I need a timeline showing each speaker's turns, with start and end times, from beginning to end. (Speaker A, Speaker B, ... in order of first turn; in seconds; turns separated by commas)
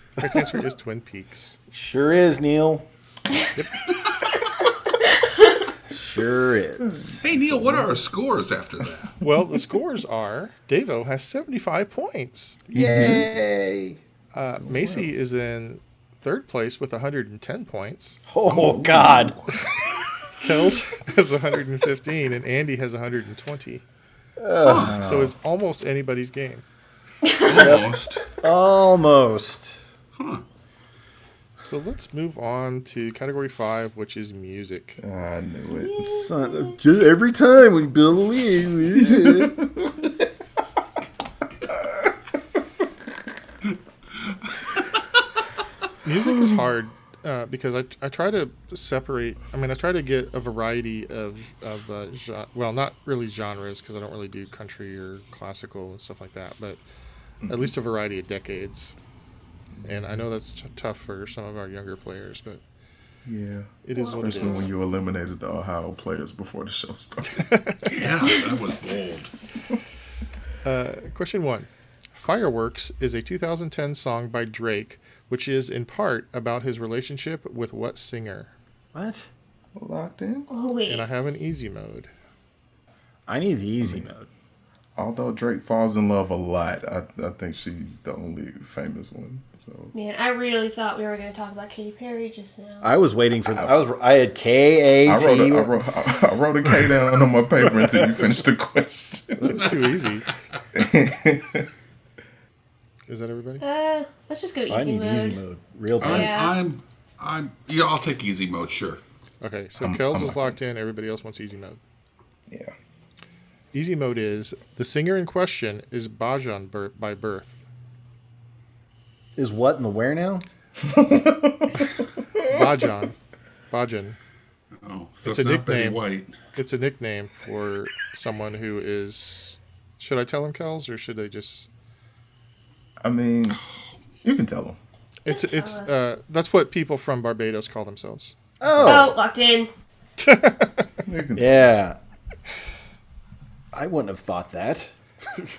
Speaker A: 0.2-1.6, Speaker B: 1.7-2.9, Speaker B: 5.9-7.2, Speaker C: 6.8-7.9, Speaker D: 7.2-9.1, Speaker A: 9.2-12.6, Speaker B: 12.7-14.0, Speaker C: 12.7-13.2, Speaker A: 14.3-18.2, Speaker C: 14.6-15.1, Speaker B: 18.3-19.4, Speaker D: 18.4-19.4, Speaker A: 20.4-23.8, Speaker B: 24.4-25.0, Speaker D: 24.6-24.9, Speaker C: 24.7-25.3, Speaker A: 24.9-26.6, Speaker E: 27.2-27.7, Speaker D: 27.4-28.3, Speaker B: 27.6-27.9, Speaker B: 28.4-29.8, Speaker D: 30.1-30.4, Speaker A: 31.6-35.0, Speaker C: 35.0-36.3, Speaker E: 35.8-36.8, Speaker B: 36.2-39.6, Speaker C: 39.0-39.9, Speaker D: 44.2-44.5, Speaker A: 46.0-56.8, Speaker C: 57.4-57.7, Speaker A: 57.5-58.9, Speaker C: 59.8-60.2, Speaker A: 59.8-62.6, Speaker C: 63.2-67.5, Speaker A: 63.8-64.7, Speaker E: 64.0-64.7, Speaker A: 67.4-67.8, Speaker D: 67.8-69.3, Speaker A: 70.6-78.5, Speaker B: 78.9-79.3, Speaker C: 79.8-80.5, Speaker E: 80.5-81.1, Speaker A: 80.9-82.1, Speaker B: 83.3-84.3, Speaker C: 83.8-84.1, Speaker C: 85.0-89.9, Speaker E: 89.9-92.9, Speaker B: 92.8-95.7, Speaker C: 93.5-93.8, Speaker C: 95.0-99.7, Speaker A: 99.4-100.3, Speaker C: 100.7-101.7, Speaker A: 103.1-103.6, Speaker E: 103.6-105.4, Speaker B: 104.7-106.4, Speaker D: 106.0-109.0, Speaker E: 106.0-106.6, Speaker A: 109.4-111.8, Speaker C: 109.8-110.5, Speaker C: 112.5-112.7, Speaker A: 113.7-117.6, Speaker B: 119.3-120.5, Speaker C: 120.8-121.8, Speaker A: 122.4-123.2, Speaker A: 123.7-124.2, Speaker D: 124.8-126.3, Speaker A: 125.2-126.0, Speaker A: 126.5-131.7, Speaker C: 133.0-133.6, Speaker C: 134.2-134.8, Speaker A: 135.2-138.3, Speaker E: 135.3-136.0, Speaker B: 138.6-139.2, Speaker E: 138.8-139.7, Speaker A: 140.2-140.9, Speaker C: 141.0-141.8, Speaker B: 141.3-142.0, Speaker B: 143.7-144.9